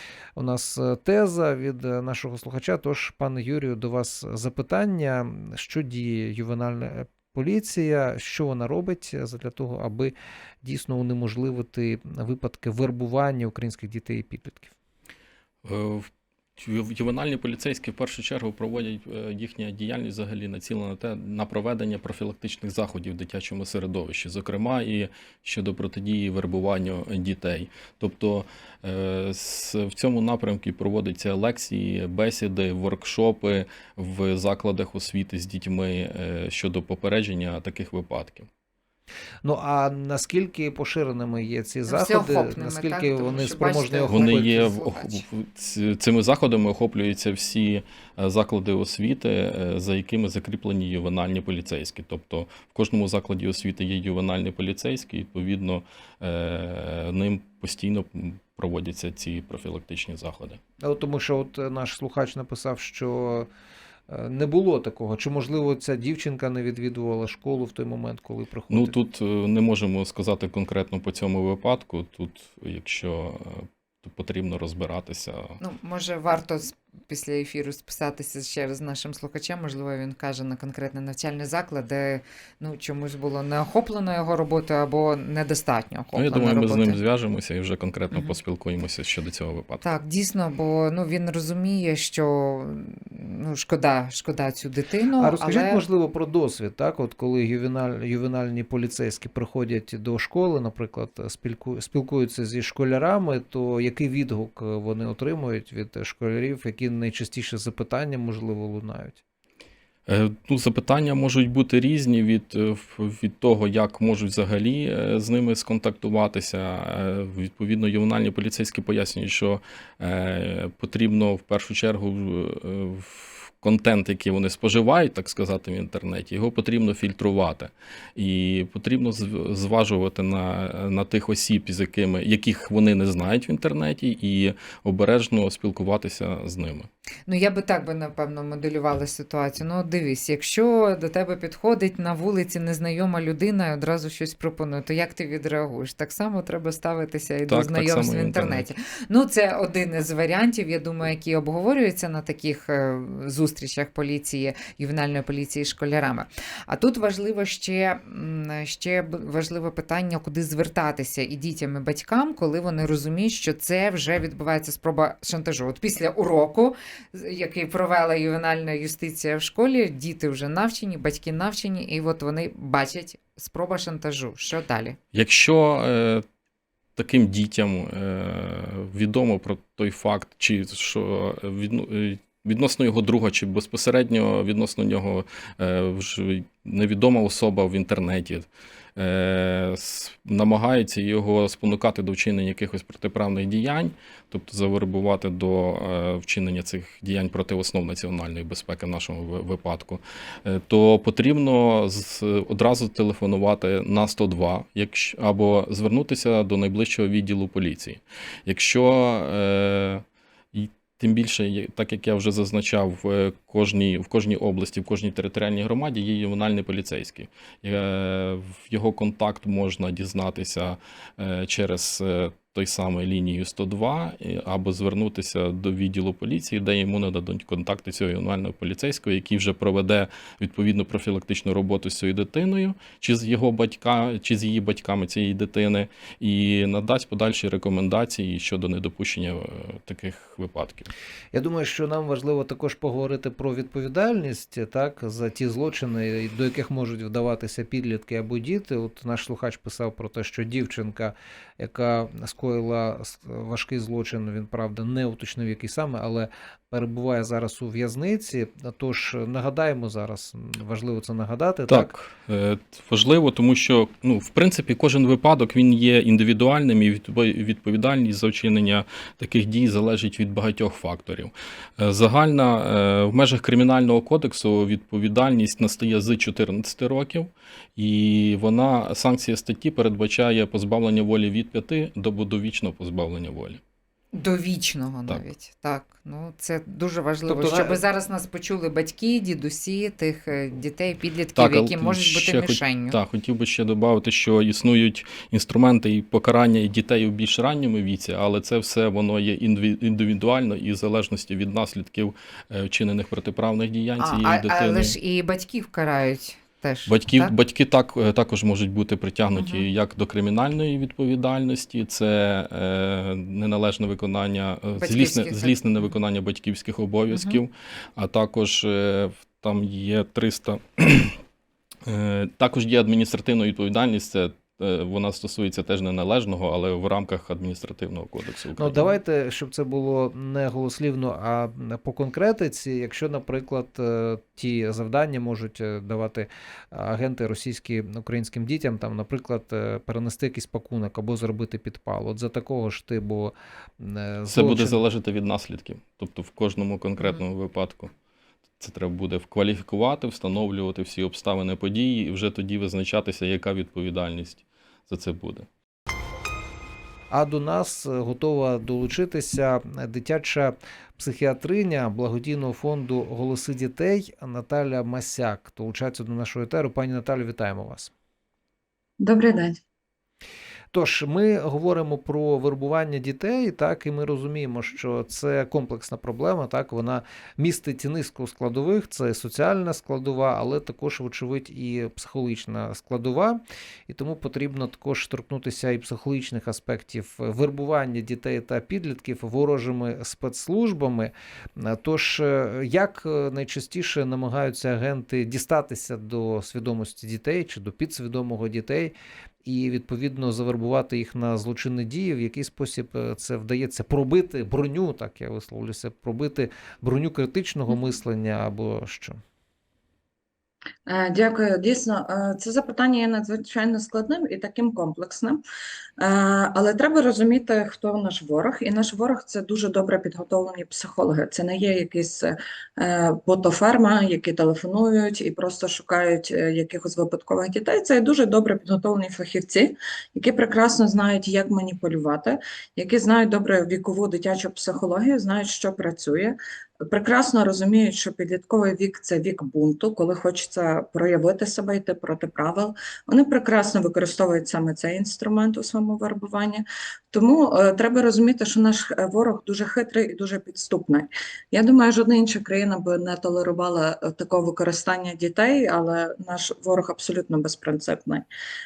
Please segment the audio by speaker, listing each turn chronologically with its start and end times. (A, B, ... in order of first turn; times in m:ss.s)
0:00.4-0:14.7 A
0:15.6-0:38.5 B
0:39.4-0:44.7 A
0:41.9-0:45.2 C
0:44.1-1:00.6 B
1:00.8-1:03.5 A
1:04.1-1:09.0 A
1:08.7-1:15.6 B
1:15.6-1:27.0 C
1:26.1-1:29.8 B
1:29.8-1:35.8 C
1:35.2-1:49.2 A
1:50.1-2:16.9 B
2:17.3-2:55.0 C
2:27.5-2:28.6 B
2:55.1-2:56.2 B
2:57.0-4:00.9 B
4:01.3-4:21.9 A
4:21.7-4:43.6 B
4:44.1-4:53.0 C
4:47.3-4:47.8 A
4:51.4-5:05.0 B
5:04.0-5:07.3 C
5:06.9-5:21.2 B
5:09.4-5:09.6 C
5:14.8-5:15.8 C
5:17.1-5:17.4 C
5:21.8-5:29.0 B
5:28.6-5:44.8 A
5:44.3-5:47.9 B
5:48.6-5:55.5 B
5:57.1-6:07.9 A
6:09.0-6:09.6 D
6:10.7-6:49.2 A
6:50.9-6:55.4 D
6:56.0-7:16.4 D
7:16.9-7:38.2 D